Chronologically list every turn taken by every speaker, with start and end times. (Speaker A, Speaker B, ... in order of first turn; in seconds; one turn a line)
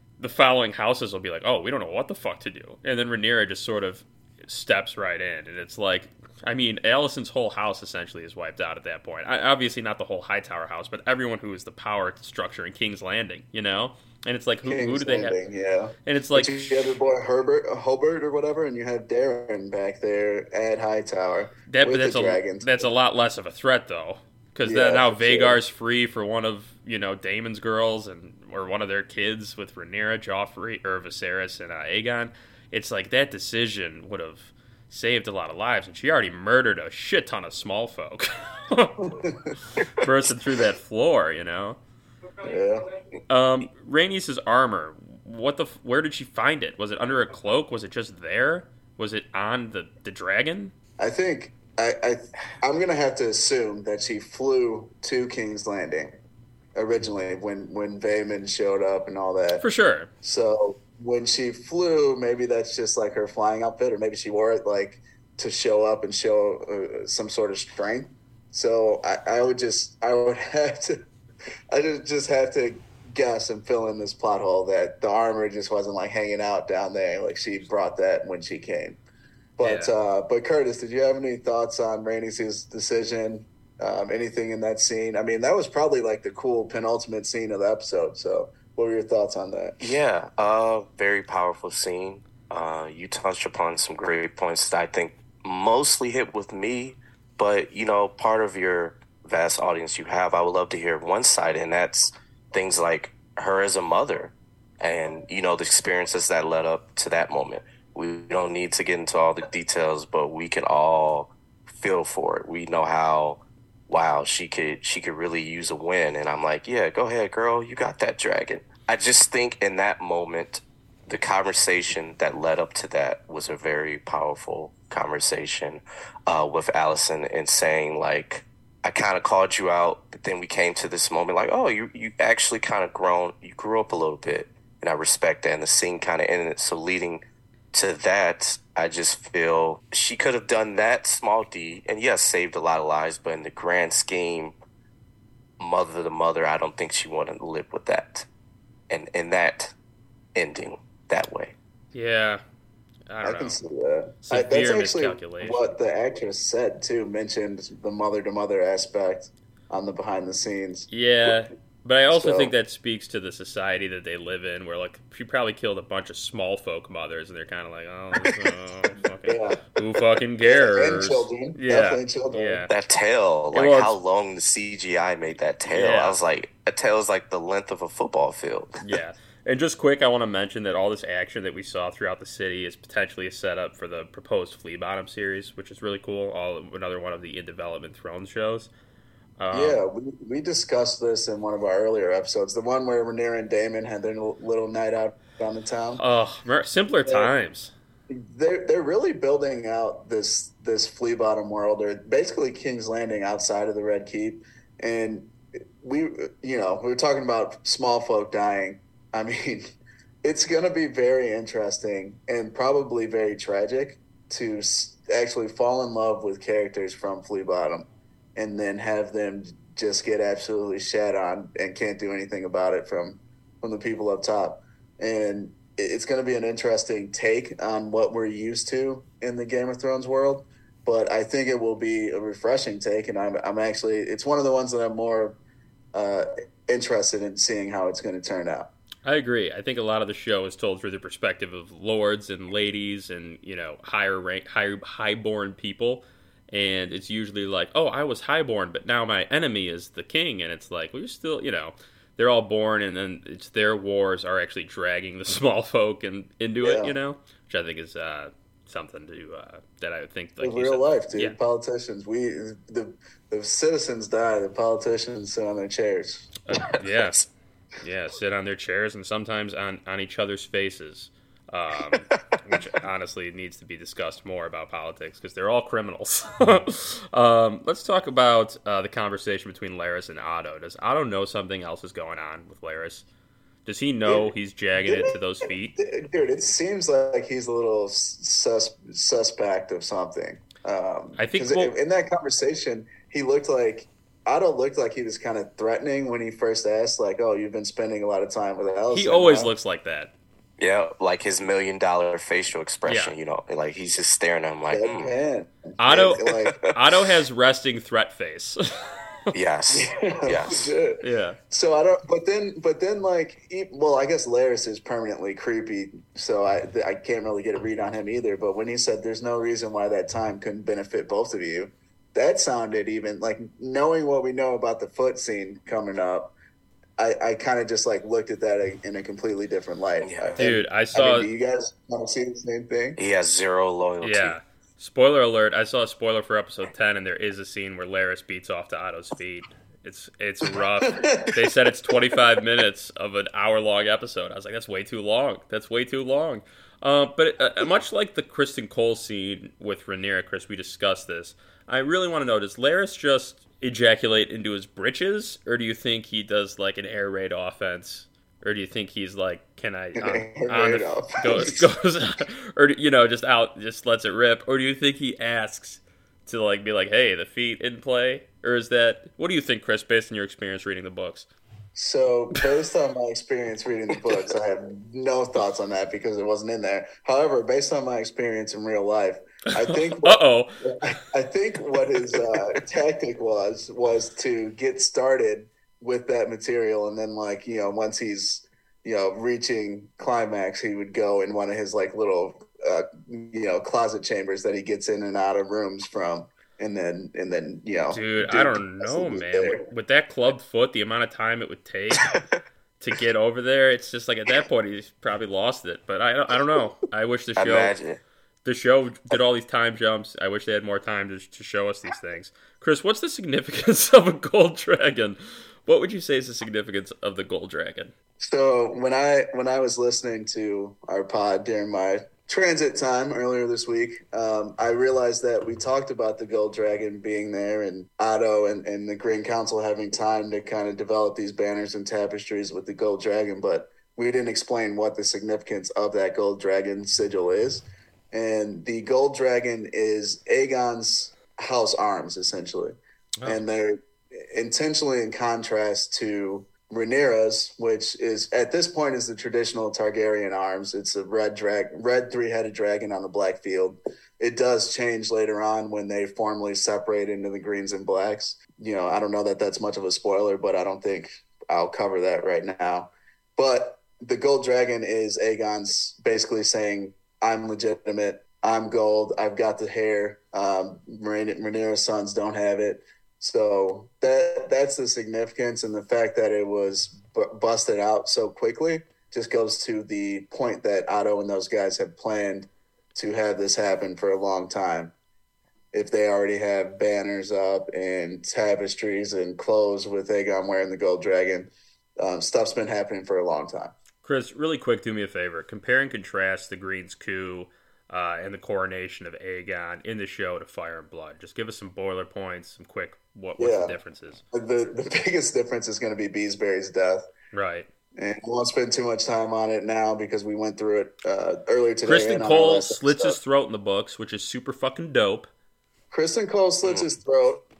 Speaker A: 0.2-15.3
Speaker B: 14.6-22.9
Speaker A: 16.0-17.0
Speaker A: 21.7-41.8
Speaker B: 24.6-25.6
Speaker B: 39.0-39.8
Speaker B: 42.4-42.8
Speaker A: 43.3-50.7
Speaker B: 51.0-56.2
Speaker B: 56.8-59.6
Speaker A: 59.6-60.1
Speaker B: 60.2-71.0
Speaker B: 71.7-79.0
Speaker B: 79.6-90.0
Speaker A: 79.6-79.9
Speaker C: 89.8-144.6
Speaker C: 145.6-148.3
Speaker C: 148.9-149.7
Speaker C: 150.3-151.5
Speaker A: 151.9-152.4
Speaker A: 153.1-153.6
Speaker B: 153.2-161.3
Speaker A: 154.2-155.7
Speaker A: 160.9-172.7
Speaker B: 162.1-162.5
Speaker B: 168.2-168.5
Speaker B: 169.2-172.7
Speaker C: 172.7-178.8
Speaker A: 173.5-173.9
Speaker A: 175.7-176.2
Speaker A: 178.8-188.7
Speaker A: 189.4-189.8
Speaker B: 189.5-196.0
Speaker A: 196.0-197.7
Speaker B: 197.1-197.3
Speaker B: 198.1-235.4
Speaker B: 235.9-238.7
Speaker A: 239.0-261.4
Speaker B: 256.6-256.9
Speaker B: 260.4-266.3
Speaker A: 266.5-267.2
Speaker C: 266.6-267.2
Speaker A: 267.8-283.0
Speaker C: 272.4-272.6
Speaker A: 283.6-285.8
Speaker B: 284.8-285.1
Speaker B: 285.8-299.5
Speaker A: 291.2-291.7
Speaker A: 298.9-300.1
Speaker C: 300.6-305.1
Speaker A: 302.9-303.1
Speaker B: 304.7-306.6
Speaker A: 305.8-309.3
Speaker C: 306.4-306.7
Speaker C: 309.3-310.7
Speaker B: 309.7-326.3
Speaker A: 311.0-311.4
Speaker B: 327.0-333.0
Speaker C: 330.0-330.4
Speaker A: 330.4-331.3
Speaker C: 333.0-334.3
Speaker A: 334.0-371.3
Speaker B: 340.9-341.5
Speaker B: 360.0-361.7
Speaker B: 371.8-399.7
Speaker A: 379.6-380.6
Speaker A: 397.9-402.2
Speaker C: 402.0-402.4
Speaker A: 402.8-407.8
Speaker C: 407.4-408.0
Speaker A: 408.4-417.9
Speaker B: 418.2-484.9
Speaker B: 485.7-493.7
Speaker A: 494.0-504.2
Speaker B: 503.4-503.8
Speaker B: 504.3-507.1
Speaker A: 507.3-507.7
Speaker B: 507.9-513.2
Speaker A: 511.8-515.3
Speaker B: 515.9-517.5